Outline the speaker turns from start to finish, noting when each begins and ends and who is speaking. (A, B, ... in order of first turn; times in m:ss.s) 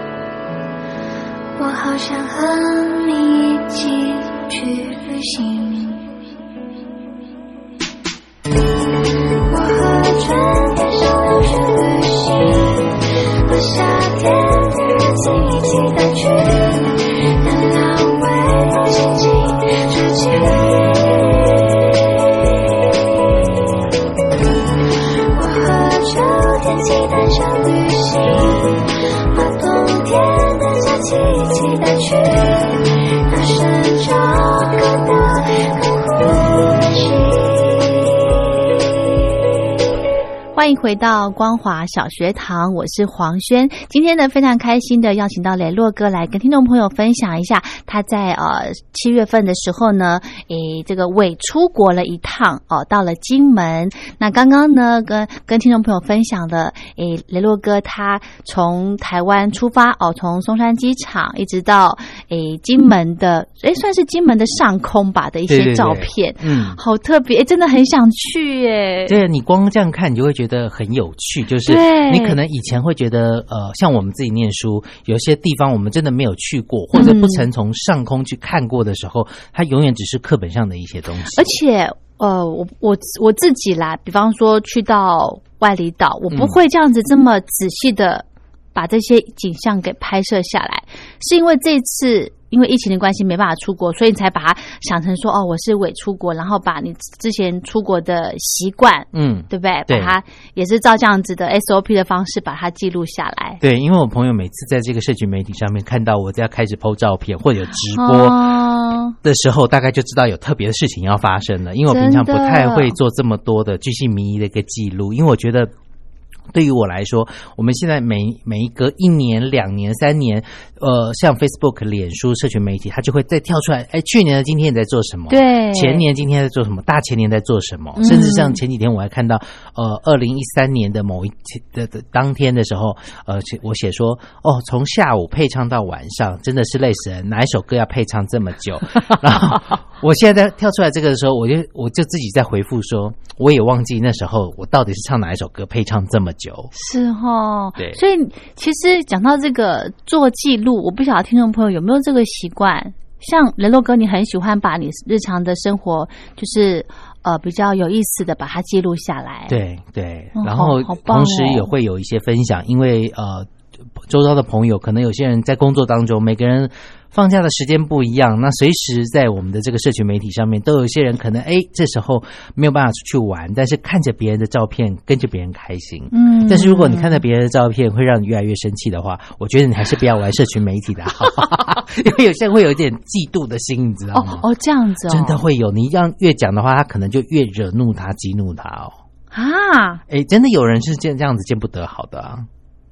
0:01.5-0:06.1 A
0:09.4-0:21.2 A
0:25.3-0:37.7 A
0:40.5-1:09.2 B
1:05.5-1:06.8 C
1:09.0-1:21.5 C
1:11.6-1:12.4 B
1:16.9-1:17.5 B
1:21.3-1:43.6 B
1:26.3-1:26.6 C
1:39.1-1:40.2 C
1:43.6-1:48.5 C
1:47.9-1:49.1 B
1:49.2-1:55.7 C
1:51.9-1:52.9 B
1:56.5-2:26.7 C
2:05.3-2:06.0 B
2:08.0-2:08.6 B
2:26.7-2:39.6 B
2:39.5-3:04.4 C
2:40.3-2:41.7 B
2:56.1-2:57.2 B
3:04.1-3:05.4 B
3:05.1-3:09.0 C
3:09.3-3:10.0 B
3:10.1-3:12.5 C